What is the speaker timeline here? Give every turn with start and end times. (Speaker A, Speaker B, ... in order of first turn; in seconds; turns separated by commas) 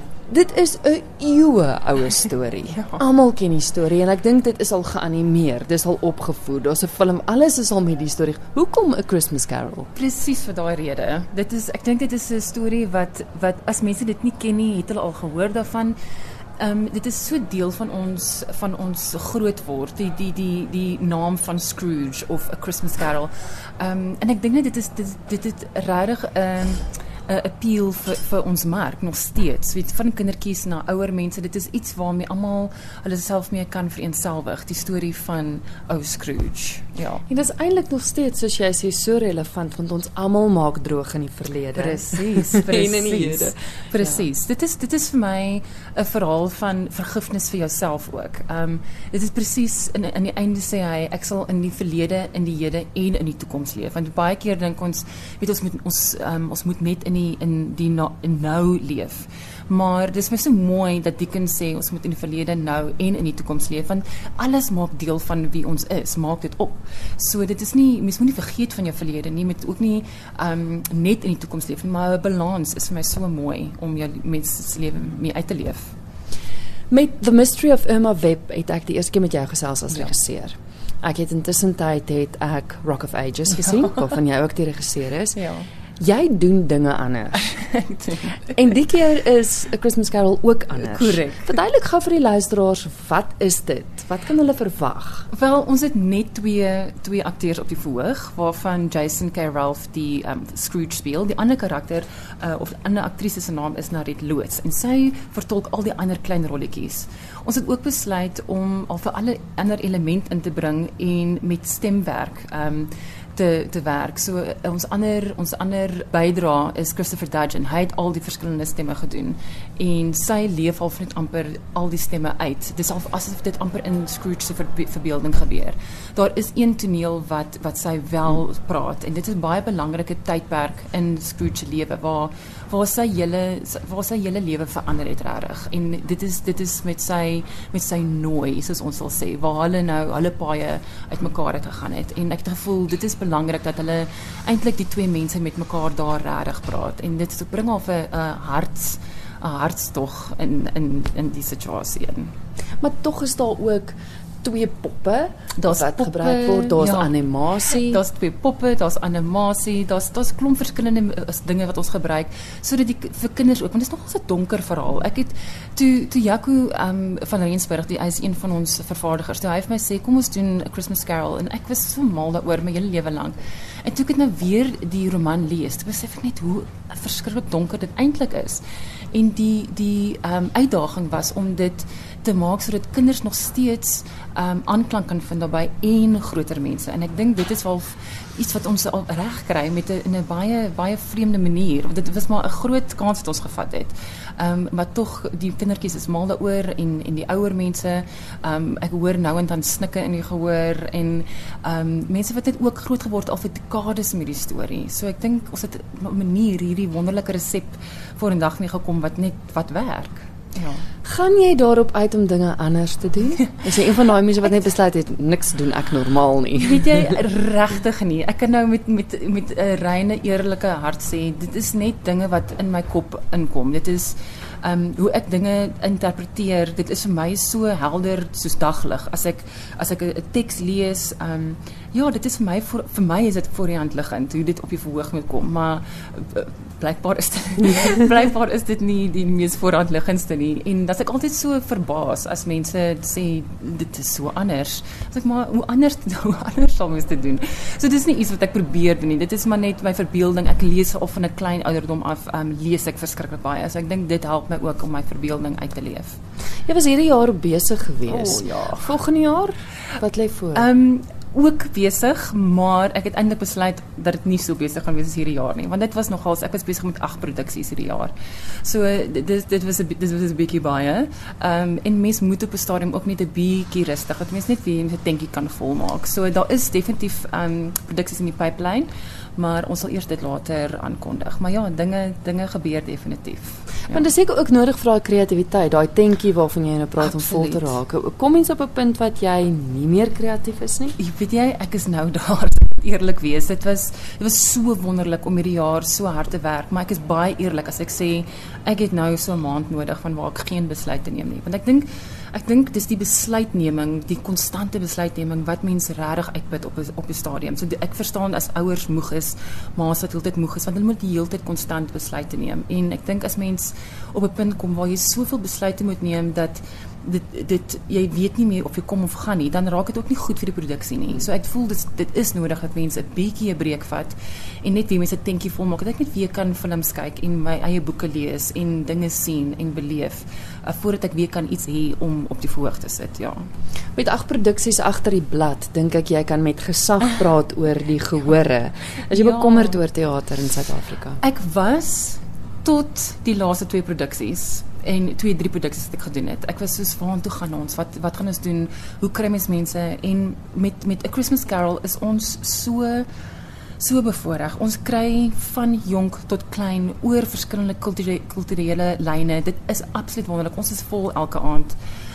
Speaker A: 0.3-9.9, Speaker B: 2.7-3.0, Speaker B: 9.9-15.9, Speaker B: 16.6-37.2, Speaker A: 37.3-44.2, Speaker B: 41.7-75.9, Speaker A: 76.9-85.3, Speaker B: 85.3-85.7, Speaker A: 86.0-87.5, Speaker B: 87.5-88.4, Speaker A: 88.5-95.3, Speaker B: 90.8-91.6, Speaker B: 95.3-152.3, Speaker A: 152.8-158.0, Speaker B: 155.6-210.8, Speaker A: 211.0-217.0, Speaker B: 216.6-256.2, Speaker A: 256.6-260.6, Speaker B: 258.1-259.0, Speaker B: 260.5-268.1, Speaker B: 268.6-284.1, Speaker A: 283.9-290.9, Speaker B: 287.0-287.8, Speaker B: 291.0-333.4, Speaker A: 333.9-341.2, Speaker B: 339.1-339.8, Speaker B: 341.2-353.1, Speaker B: 353.8-361.8